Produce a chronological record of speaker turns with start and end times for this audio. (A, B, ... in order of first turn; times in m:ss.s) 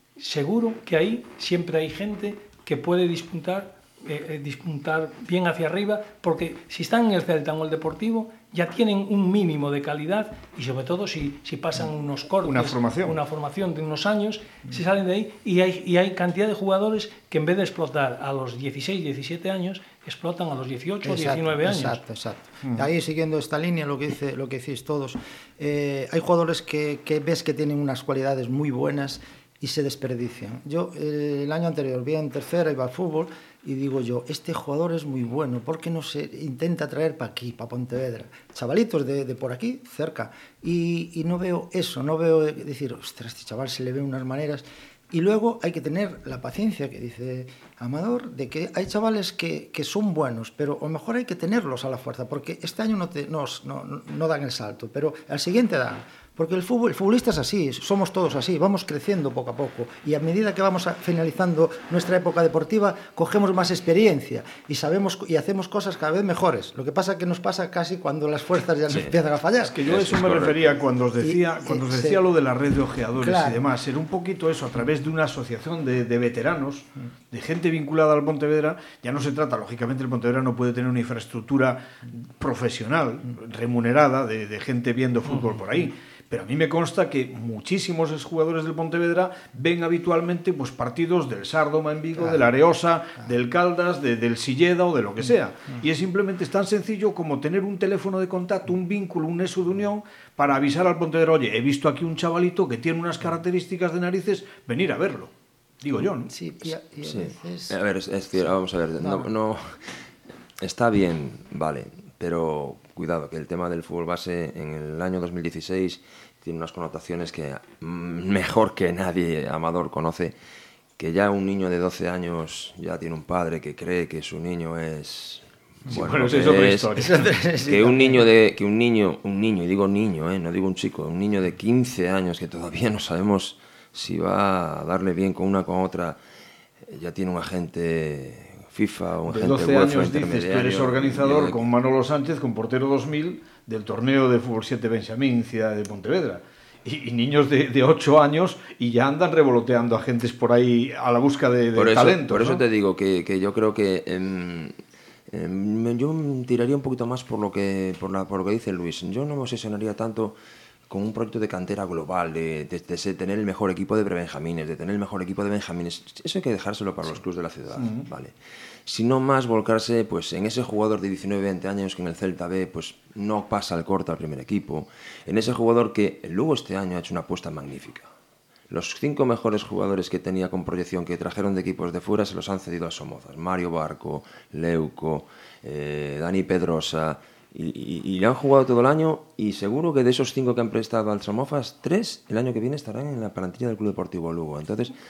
0:00.2-0:22.0 A
0:12.4-0:13.1 B
0:21.0-1:09.8 C
1:08.9-1:09.2 D
1:09.6-1:46.3 B
1:09.8-1:10.8 D
1:11.2-1:12.2 C
1:13.2-1:13.6 C
1:46.2-1:47.8 C
1:47.0-1:50.0 D
1:49.0-1:49.3 C
1:50.6-2:00.3 D
2:01.0-2:16.2 D
2:05.9-2:07.2 B
2:07.0-2:08.3 C
2:16.8-2:21.6 D
2:19.3-2:32.6 B
2:31.7-2:34.8 D
2:35.3-2:40.4 D
2:40.9-2:48.3 D
2:47.7-2:48.1 B
2:48.8-2:58.1 D
2:58.7-3:14.9 D